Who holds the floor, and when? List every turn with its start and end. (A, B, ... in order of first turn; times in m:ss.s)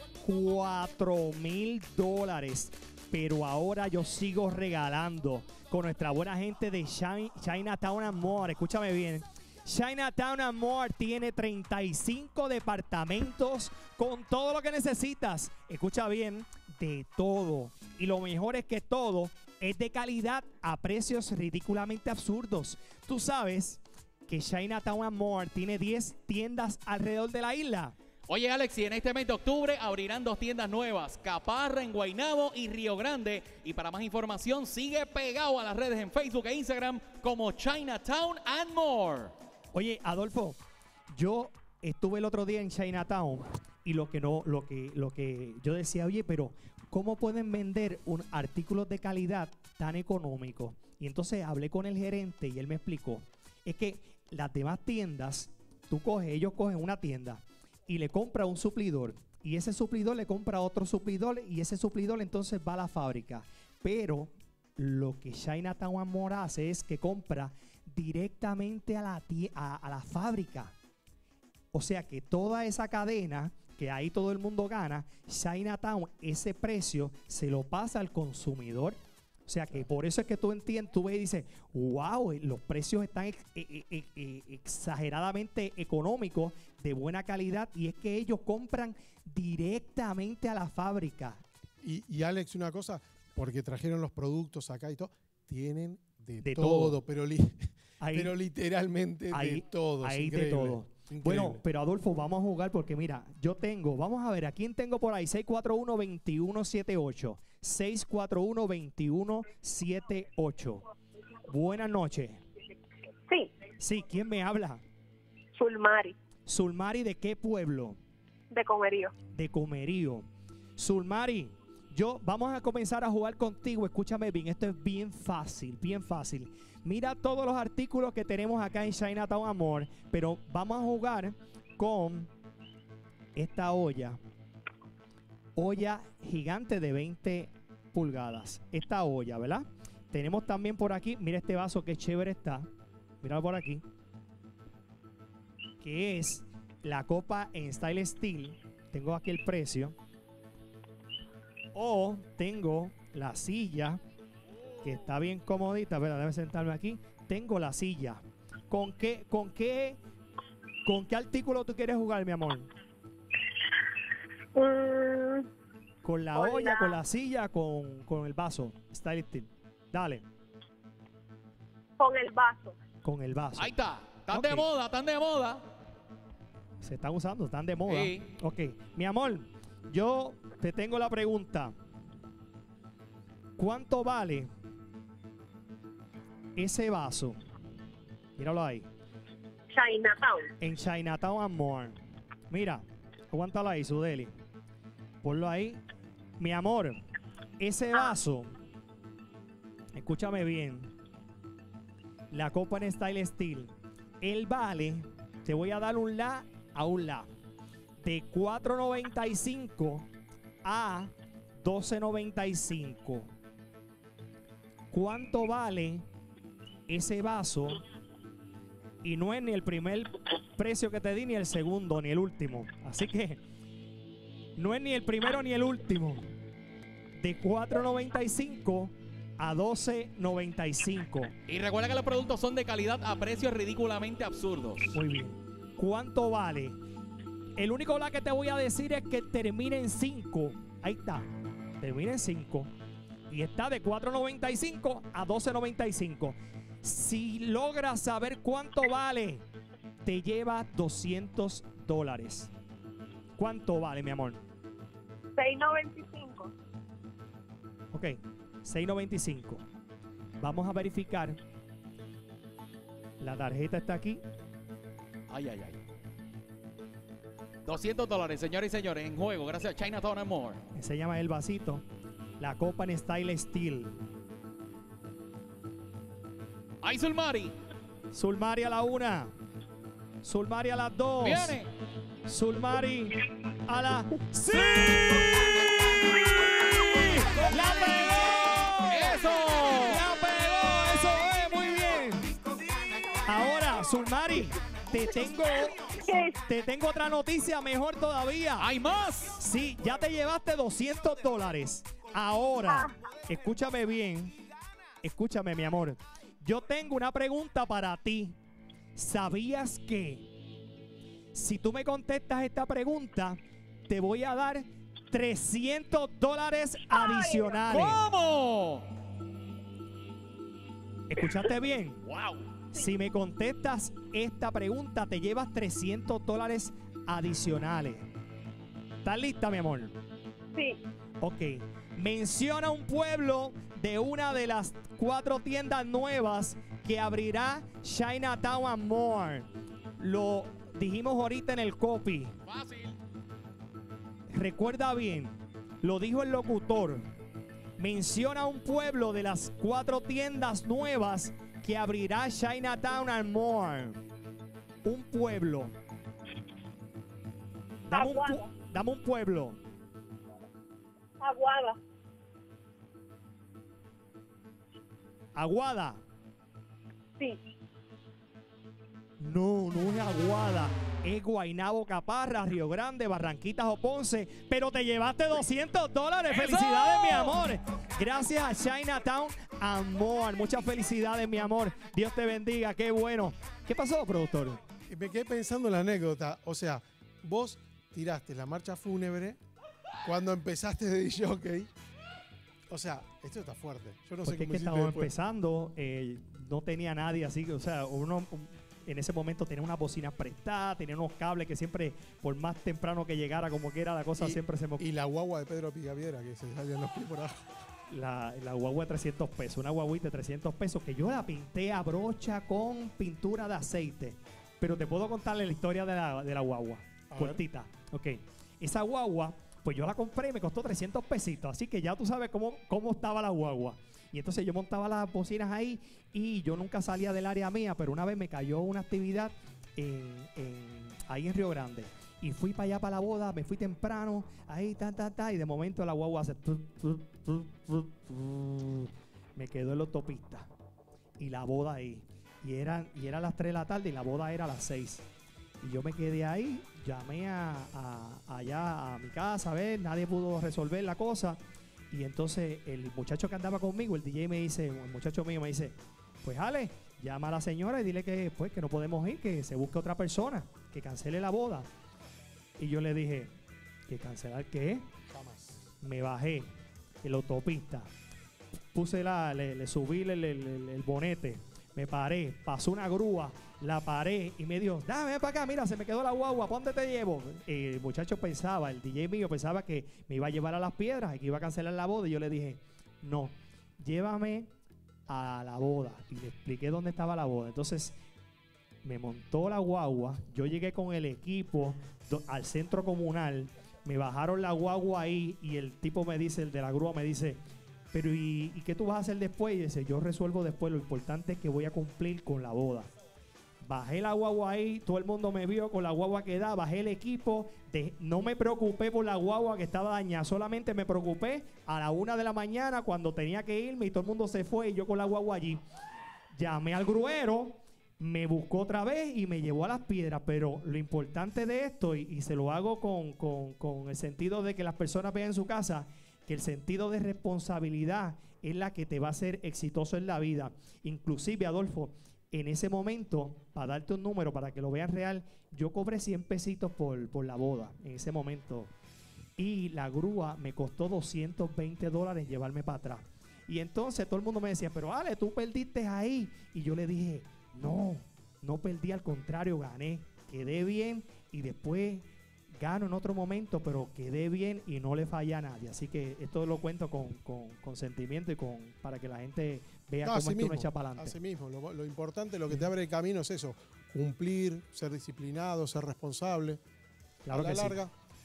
0:00.2-0:27.9 A
0:28.3-0:39.3 B
0:39.7-0:40.6 A
0:41.1-1:10.7 A
1:11.7-1:31.4 A
1:31.8-1:41.6 C
1:36.4-1:37.0 A
1:38.0-1:38.3 A
1:39.3-1:50.8 A
1:51.5-1:52.4 A
1:53.8-1:54.8 A
1:55.6-1:56.1 D
1:56.5-1:58.0 A
1:58.5-1:59.2 D
1:59.3-2:12.3 A
2:13.4-2:14.2 A
2:15.6-2:22.7 A
2:23.2-2:23.8 A
2:25.8-2:30.0 A
2:31.7-2:34.0 A
2:34.8-2:40.0 A
2:40.8-2:42.7 A
2:44.6-2:45.5 D
2:46.0-2:50.2 A
2:46.4-2:47.0 D
2:52.0-2:52.8 D
2:53.0-2:53.7 A
2:53.6-2:55.6 B
2:54.3-2:54.7 A
2:56.8-3:01.7 A
2:57.9-2:58.3 B
3:03.6-3:04.5 A
3:06.6-3:07.4 A
3:08.4-3:08.9 A
3:09.7-3:10.5 D
3:10.6-3:12.0 A
3:12.5-3:14.3 A
3:15.2-3:15.8 A
3:16.4-3:17.0 A
3:17.6-3:18.6 A
3:20.0-3:20.9 A
3:22.3-3:27.3 A
3:28.0-3:30.1 A
3:30.6-3:33.3 A
3:34.9-3:36.1 A
3:36.9-3:37.8 A
3:39.0-3:43.4 A
3:44.6-3:46.3 A
3:47.2-3:51.3 A
3:51.5-3:54.9 B
3:54.9-3:56.8 A
3:57.6-4:01.3 A
4:01.8-4:02.7 A
4:03.3-4:09.4 A
4:10.0-4:12.5 A
4:13.4-4:14.4 A
4:15.4-4:16.5 D
4:17.9-4:19.6 A
4:20.4-4:21.4 A
4:23.2-4:24.2 A
4:25.3-4:25.8 B
4:27.6-4:30.6 B
4:30.7-4:31.8 A
4:32.4-4:34.0 A
4:36.8-4:37.5 B
4:38.1-4:39.3 A
4:40.2-4:41.6 A
4:41.2-4:41.7 B
4:42.2-4:45.2 A
4:44.5-4:50.0 B
4:47.3-4:48.9 A
4:49.8-4:52.3 A
4:53.2-4:58.7 A
4:56.0-4:56.4 D
4:58.6-4:59.4 B
4:59.3-5:04.3 A
5:05.0-5:08.4 A
5:08.9-5:10.3 A
5:11.3-5:18.0 A
5:17.0-5:17.5 D
5:17.7-5:18.9 B
5:21.1-5:22.0 A
5:22.0-5:22.4 B
5:22.7-5:28.1 A
5:29.0-5:29.9 A
5:30.5-5:30.8 D
5:31.2-5:42.3 A
5:42.4-5:43.0 B
5:44.3-5:47.0 A
5:47.8-5:54.0 A
5:54.8-5:55.7 A
5:57.9-5:59.6 A
5:57.9-5:58.5 D
6:01.2-6:01.8 D
6:05.3-6:06.0 A
6:09.2-6:24.6 A
6:16.3-6:17.3 B
6:24.9-6:29.4 C
6:30.0-6:31.7 C
6:32.7-6:35.1 C
6:34.2-6:44.8 A
6:44.2-6:47.3 C
6:47.9-7:20.5 A
6:57.1-6:57.4 C
7:21.2-7:25.0 A
7:25.6-7:31.4 A
7:31.9-7:41.7 A
7:42.6-7:43.3 A
7:43.9-7:44.8 A
7:45.1-7:45.6 C
7:45.8-7:46.5 A
7:47.0-7:47.9 A
7:48.7-8:04.5 A
8:05.1-8:08.0 A
8:08.8-8:17.4 A
8:17.9-8:22.9 A
8:23.6-8:35.6 A
8:36.4-8:58.7 A
8:59.4-9:12.0 A
9:12.6-9:21.2 A
9:20.0-9:26.6 C
9:27.2-9:27.8 A
9:27.3-9:27.9 C